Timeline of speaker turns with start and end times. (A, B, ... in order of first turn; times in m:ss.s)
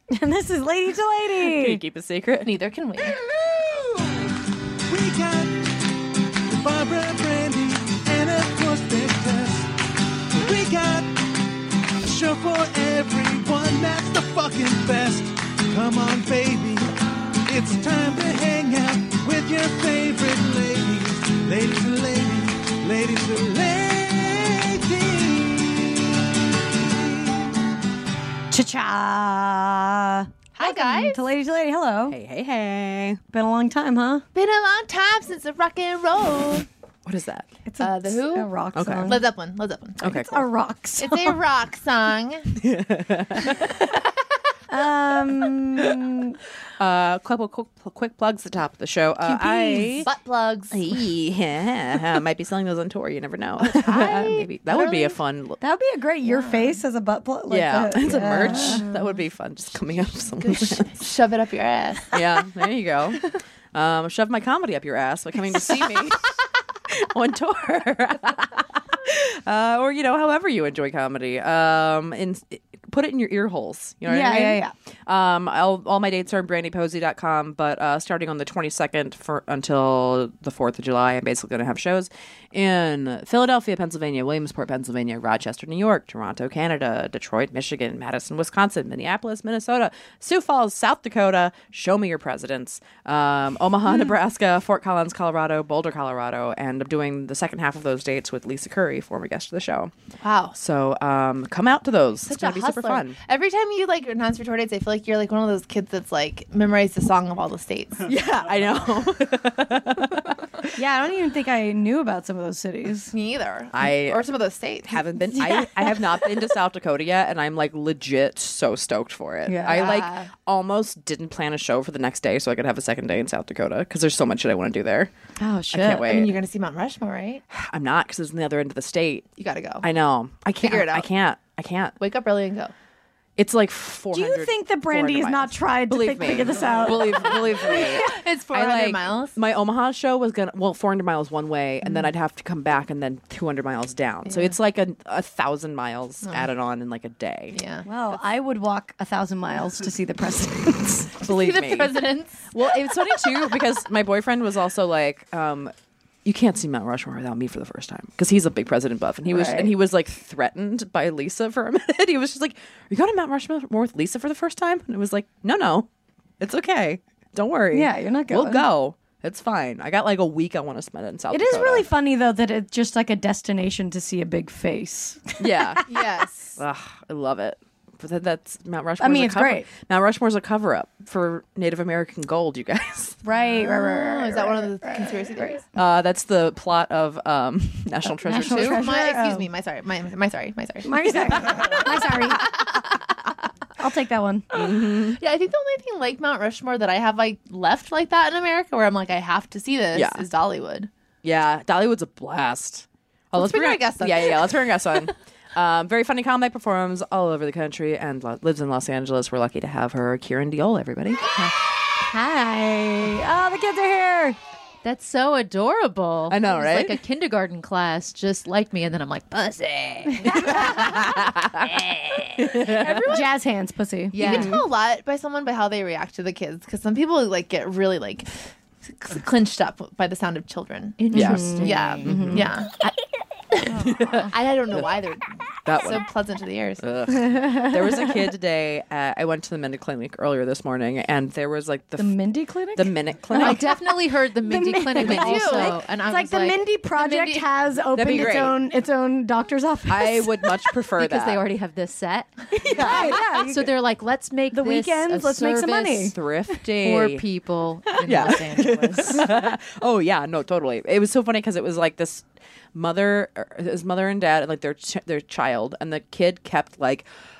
0:00.1-0:01.8 A
0:01.4-0:02.6 B
0:02.4-0:03.2 C
0:03.1-0:04.3 D
0:04.9-0:05.7 D
0:06.4-0:09.7 D
0:10.3-0:11.2 D
0:12.0-0:16.8 D
0:17.4-0:27.6 D
0:28.5-0:32.2 A
0:30.6-0:31.2 C
0:32.1-0:33.2 B
0:33.3-0:34.2 A
0:34.3-0:36.7 C
0:37.0-0:37.5 B
0:37.7-0:39.2 A
0:37.8-0:38.5 C
0:38.7-0:39.2 B
0:39.0-0:40.3 C
0:40.0-0:40.5 B
0:40.1-0:41.4 A
0:41.0-0:42.5 C
0:42.6-0:43.9 B
0:44.7-0:46.4 A
0:46.8-0:50.1 B
0:49.2-0:49.6 A
0:49.5-0:51.0 C
0:50.7-0:55.6 B
0:53.6-0:55.2 C
0:55.6-0:58.9 A
0:56.2-0:56.8 C
0:57.5-1:01.0 B
0:58.0-0:58.9 C
1:00.4-1:02.4 C
1:02.1-1:06.2 B
1:05.7-1:06.1 C
1:06.9-1:39.9 B
1:14.1-1:14.7 A
1:40.2-1:40.5 C
1:40.5-1:43.2 B
1:42.2-1:48.1 C
1:48.1-1:50.7 B
1:50.8-1:53.1 A
1:53.1-1:55.0 C
1:53.7-1:54.2 B
1:54.8-2:05.1 B
1:55.3-1:56.2 A
1:59.4-1:59.8 A
1:59.6-2:00.3 C
2:05.4-2:06.1 A
2:05.7-2:06.4 B
2:05.9-2:07.4 C
2:07.5-2:09.3 B
2:09.4-2:09.8 C
2:09.8-2:12.0 B
2:10.6-2:11.1 C
2:12.0-2:12.7 C
2:13.4-2:27.6 B
2:14.1-2:18.1 A
2:17.6-2:19.4 C
2:24.2-2:24.5 C
2:26.2-2:26.5 C
2:27.5-2:27.9 C
2:27.8-2:31.1 A
2:31.1-2:35.7 B
2:31.3-2:32.5 C
2:36.2-2:45.9 B
2:39.3-2:39.7 A
2:46.4-2:51.9 B
2:47.7-2:48.7 A
2:51.3-2:55.8 A
2:55.4-2:55.8 B
2:55.9-2:56.6 C
2:56.6-3:03.2 B
2:59.0-2:59.7 A
3:03.2-3:05.6 A
3:03.4-3:05.7 C
3:05.8-3:08.9 B
3:08.2-3:09.5 A
3:08.4-3:13.0 C
3:10.8-3:12.5 A
3:13.8-3:14.5 A
3:14.5-3:15.2 B
3:14.5-3:20.9 C
3:19.9-3:20.2 B
3:21.2-3:31.3 B
3:23.3-3:24.7 C
3:32.0-3:34.4 A
3:34.8-3:42.5 E
3:36.3-3:37.0 B
3:40.5-3:41.6 B
3:42.4-3:43.0 B
3:42.5-3:43.4 C
3:43.1-3:44.2 A
3:44.1-3:44.6 E
3:44.2-3:48.3 C
3:44.2-3:44.6 B
3:48.8-3:52.8 C
3:51.0-3:52.2 E
3:51.1-3:51.5 B
3:51.1-3:52.5 A
3:52.0-3:52.5 B
3:53.5-3:56.8 C
3:53.7-3:54.3 E
3:54.0-3:54.8 B
3:55.7-3:56.0 B
3:56.8-4:02.2 B
3:57.1-3:58.1 A
4:02.0-4:03.8 A
4:02.7-4:03.7 B
4:03.3-4:06.7 E
4:04.4-4:10.7 A
4:05.0-4:05.8 C
4:06.9-4:07.5 C
4:07.9-4:08.6 B
4:09.9-4:11.4 B
4:11.0-4:16.1 E
4:12.5-4:13.7 A
4:12.8-4:13.2 B
4:14.5-4:16.6 A
4:16.1-4:17.2 B
4:16.7-4:19.3 E
4:18.0-4:27.1 B